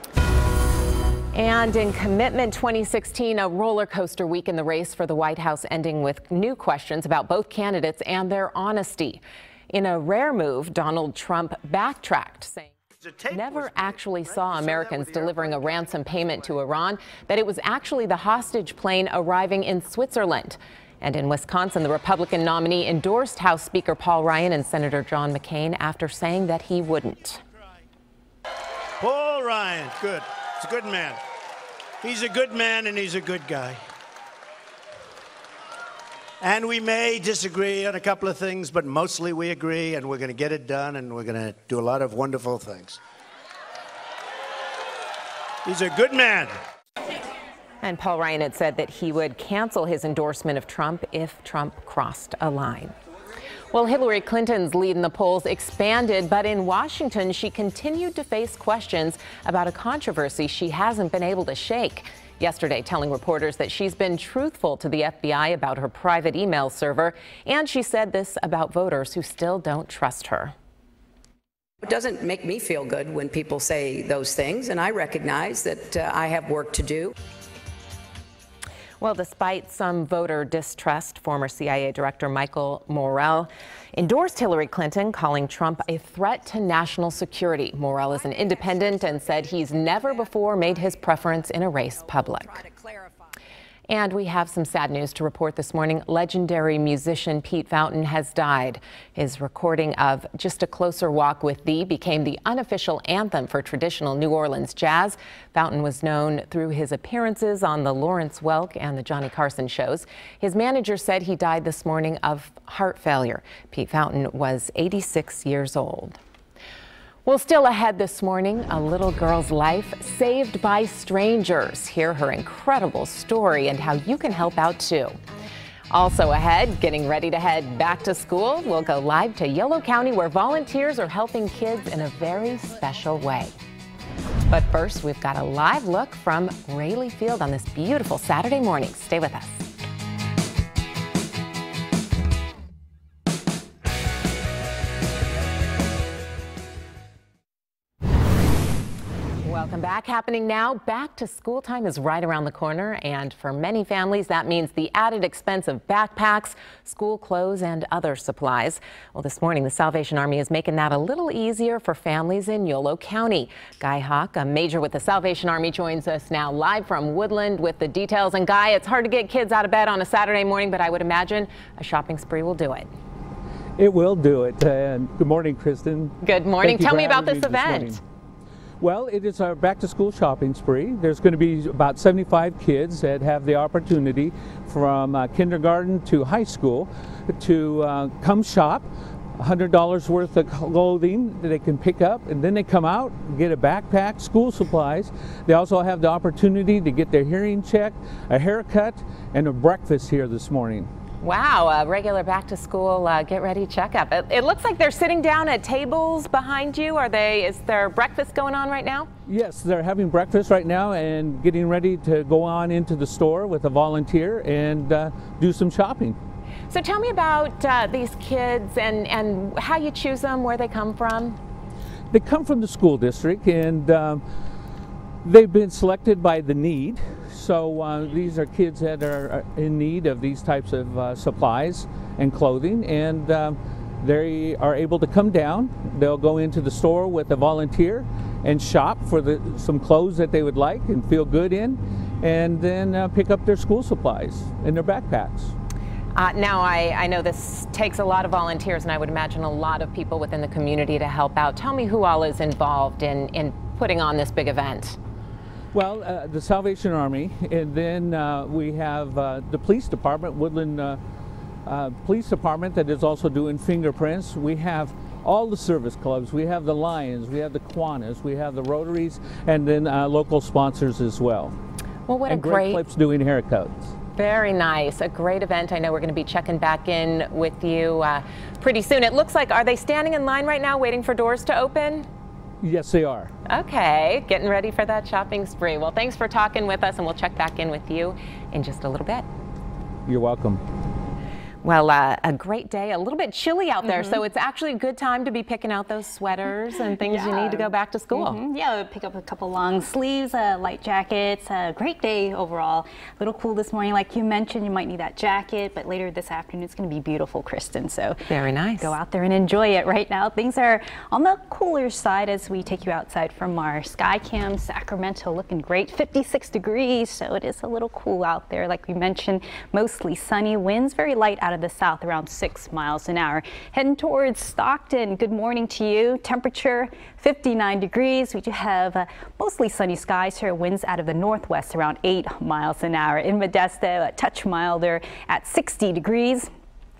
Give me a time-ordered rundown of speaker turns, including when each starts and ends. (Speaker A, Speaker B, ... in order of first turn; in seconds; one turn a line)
Speaker A: 1.3-12.7
Speaker B: 13.0-16.5
Speaker A: 13.3-27.4
Speaker B: 29.0-31.2
Speaker B: 32.0-33.8
Speaker B: 36.4-43.0
Speaker B: 45.6-46.5
Speaker A: 47.8-53.0
Speaker A: 53.7-70.5
Speaker C: 71.8-77.1
Speaker A: 79.0-92.7
Speaker A: 93.9-116.2
Speaker A: 117.2-125.2
Speaker A: 125.9-133.6
Speaker A: 134.5-139.7
Speaker A: 149.4-172.9
Speaker D: 173.8-178.0
Speaker A: 176.2-178.0
Speaker D: 178.8-188.9
Speaker D: 189.4-200.9
Speaker A: 201.2-209.1
Speaker D: 209.3-216.2
Speaker A: 216.7-221.4
Speaker D: 222.1-224.2
Speaker D: 225.2-245.5
Speaker A: 246.2-255.0
Speaker D: 255.7-261.0
Speaker D: 261.7-271.6
Speaker A: 272.1-272.8
Speaker D: 272.3-273.9
Speaker A: 274.2-282.1
Speaker D: 282.6-283.3
Speaker A: 283.5-289.3
Speaker D: 290.1-290.6
Speaker A: 291.6-298.4
Speaker E: 293.8-294.2
Speaker E: 297.0-308.2
Speaker A: 308.3-308.9
Speaker E: 308.8-336.5